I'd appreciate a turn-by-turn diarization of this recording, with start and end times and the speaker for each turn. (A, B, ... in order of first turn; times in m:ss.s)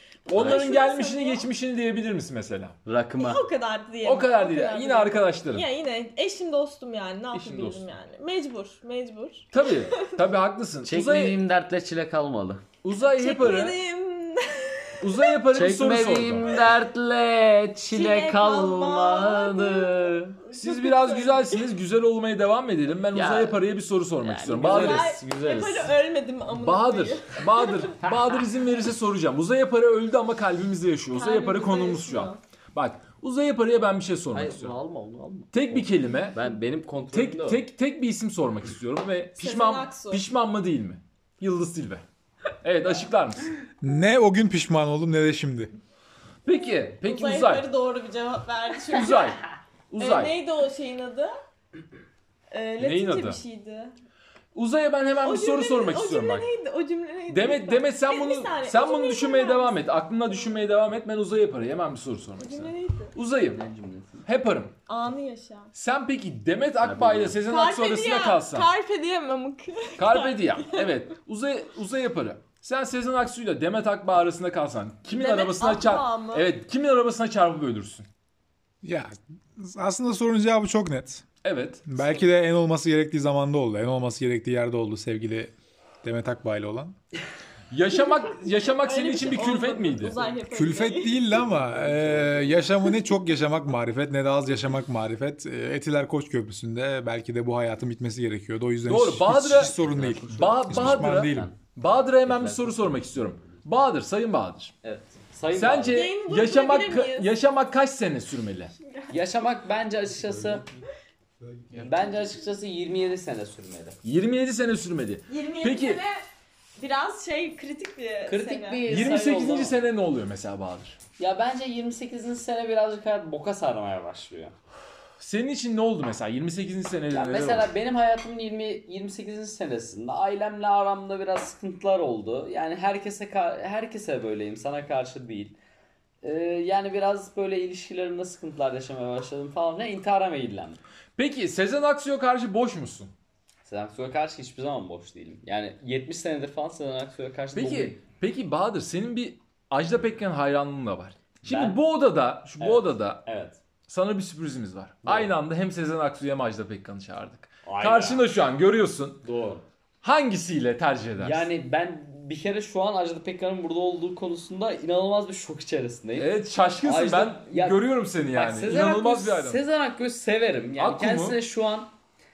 0:00.3-0:01.4 A
0:00.3-0:02.8 B
0:00.4-0:00.6 C
0:02.8-0:03.4 C
0:03.2-0:10.2 A
0:04.0-0:05.6 B
0:07.3-0:07.9 B
0:09.5-0:11.4 B
0:10.8-0:12.6 C
0:12.8-0:13.8 B
0:13.0-0:15.4 A
0:15.0-0:16.6 B
0:15.5-0:20.4 C
0:17.9-0:21.6 A
0:20.6-0:25.2 B
0:23.1-0:23.6 C
0:24.2-0:25.9 C
0:24.6-0:28.0 A
0:26.5-0:34.7 B
0:31.2-0:32.4 A
0:34.3-0:37.6 C
0:35.5-0:36.4 B
0:37.1-0:42.0 B
0:39.4-0:40.2 A
0:42.6-0:43.6 B
0:43.8-0:45.7 D
0:46.4-0:47.7 B
0:47.0-0:49.4 A
0:48.9-0:50.3 B
0:50.0-0:51.3 A
0:52.5-0:53.9 A
0:52.8-0:53.4 B
0:54.5-0:56.5 B
0:55.2-0:59.8 A
0:57.3-1:03.6 B
1:02.4-1:03.1 A
1:03.5-1:04.2 C
1:04.2-1:04.8 B
1:04.9-1:05.7 A
1:05.8-1:08.7 B
1:06.8-1:07.4 C
1:07.5-1:10.9 A
1:10.0-1:18.1 B
1:15.1-1:16.5 A
1:18.8-1:21.2 D
1:21.4-1:22.2 B
1:21.9-1:27.0 D
1:27.7-1:30.2 B
1:28.8-1:31.2 A
1:30.5-1:41.5 D
1:31.5-1:32.6 C
1:38.8-1:39.7 B
1:39.4-1:41.5 C
1:40.3-1:44.7 B
1:42.2-1:43.6 C
1:44.8-1:46.0 C
1:45.5-1:48.7 B
1:45.9-1:47.3 A
1:48.8-1:49.1 A
1:49.1-1:50.7 C
1:51.7-1:54.0 C
1:54.0-1:56.0 B
1:55.3-1:56.2 A
1:56.8-1:59.1 A
1:58.3-1:59.8 C
1:58.8-2:01.0 B
2:01.2-2:04.6 C
2:05.2-2:07.7 B
2:07.1-2:15.6 C
2:16.2-2:20.8 C
2:21.2-2:23.1 B
2:23.6-2:28.0 C
2:27.6-2:33.2 B
2:31.4-2:31.8 C
2:32.6-2:33.6 C
2:33.9-2:39.2 B
2:35.0-2:35.3 C
2:37.6-2:38.3 C
2:39.2-2:39.6 C
2:40.0-2:41.5 B
2:41.2-2:47.8 C
2:46.2-2:49.6 B
2:48.3-2:51.9 C
2:50.8-2:51.4 B